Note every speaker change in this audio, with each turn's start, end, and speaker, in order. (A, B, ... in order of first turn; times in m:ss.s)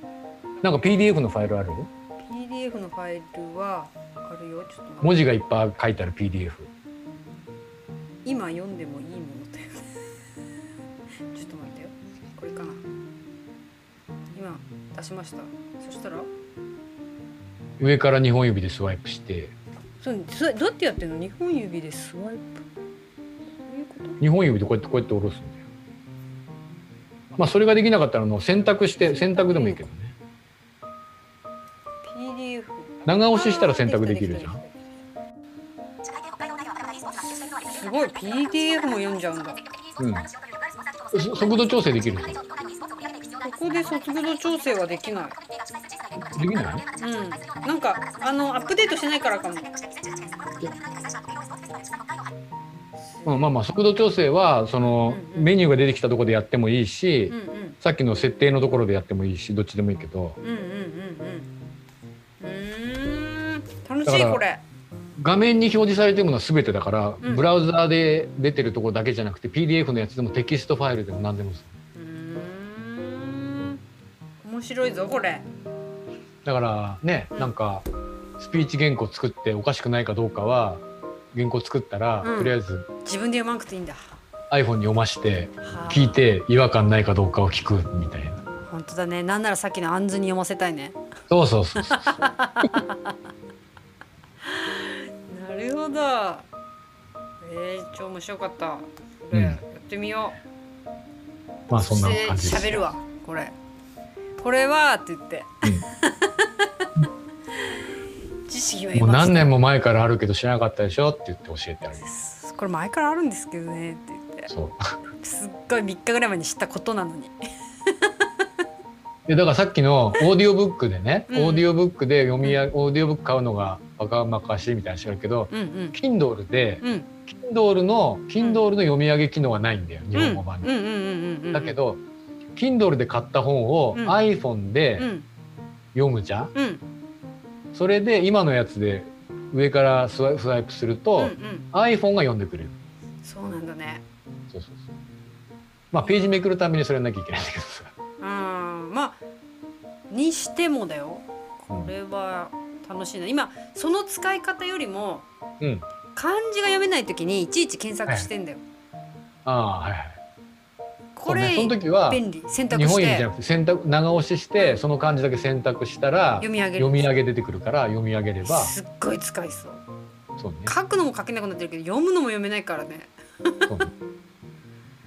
0:00.6-0:01.9 A
0:02.2-0:05.3 B
0:05.0-0:06.7 A
0:08.2-0:09.9 B
0:11.3-0:12.8 B
0:14.3-0:16.3 B
0:17.8-0:19.6 A
0:20.0-0:22.6 B
0:23.6-0:24.2 B
0:24.2-0:25.6 A
0:27.4-0:30.2 A
0:29.0-0:29.8 B
0:32.0-0:34.8 B
0:33.0-0:34.6 A
0:36.0-0:52.3 C
0:37.3-0:39.6 B
0:40.0-0:40.3 A
0:41.1-0:42.4 A
0:43.4-0:45.4 B
0:46.2-0:46.8 A
0:47.0-0:49.7 B
0:53.0-0:53.6 B
0:53.3-1:00.4 A
0:55.1-0:55.6 B
0:57.3-0:57.8 B
1:00.4-1:01.5 B
1:02.4-1:04.6 B
1:04.1-1:04.4 A
1:05.2-1:11.7 A
1:12.0-1:13.8 B
1:14.4-1:15.5 B
1:16.4-1:17.9 A
1:18.4-1:22.9 A
1:22.2-1:24.2 B
1:24.5-1:28.4 A
1:25.6-1:26.2 B
1:28.6-1:31.0 B
1:31.3-1:32.7 A
1:31.8-1:33.2 B
1:34.5-1:36.5 B
1:37.4-1:40.4 B
1:39.3-1:39.6 A
1:41.7-1:42.9 A
1:41.7-1:43.6 B
1:44.4-1:46.5 B
1:48.5-1:49.5 B
1:49.0-1:52.1 A
1:52.0-1:54.5 B
1:54.5-1:55.0 A
1:55.2-1:57.4 B
1:57.9-1:58.2 B
1:59.3-2:10.7 A
2:01.3-2:01.7 B
2:05.5-2:06.0 B
2:06.8-2:07.1 B
2:08.4-2:08.6 B
2:10.1-2:11.7 B
2:11.5-2:12.0 A
2:12.6-2:15.1 A
2:15.0-2:15.3 B
2:15.9-2:16.5 A
2:16.5-2:16.8 B
2:17.7-2:22.8 A
2:21.2-2:21.7 B
2:23.2-2:24.0 B
2:24.5-2:24.9 A
2:25.9-2:27.9 A
2:28.2-2:29.2 B
2:30.1-2:35.3 B
2:36.2-2:38.6 B
2:39.4-2:40.2 A
2:41.2-2:43.3 B
2:41.3-2:48.8 A
2:46.4-2:47.1 B
2:48.4-2:49.8 B
2:50.4-2:50.7 A
2:50.7-2:53.7 B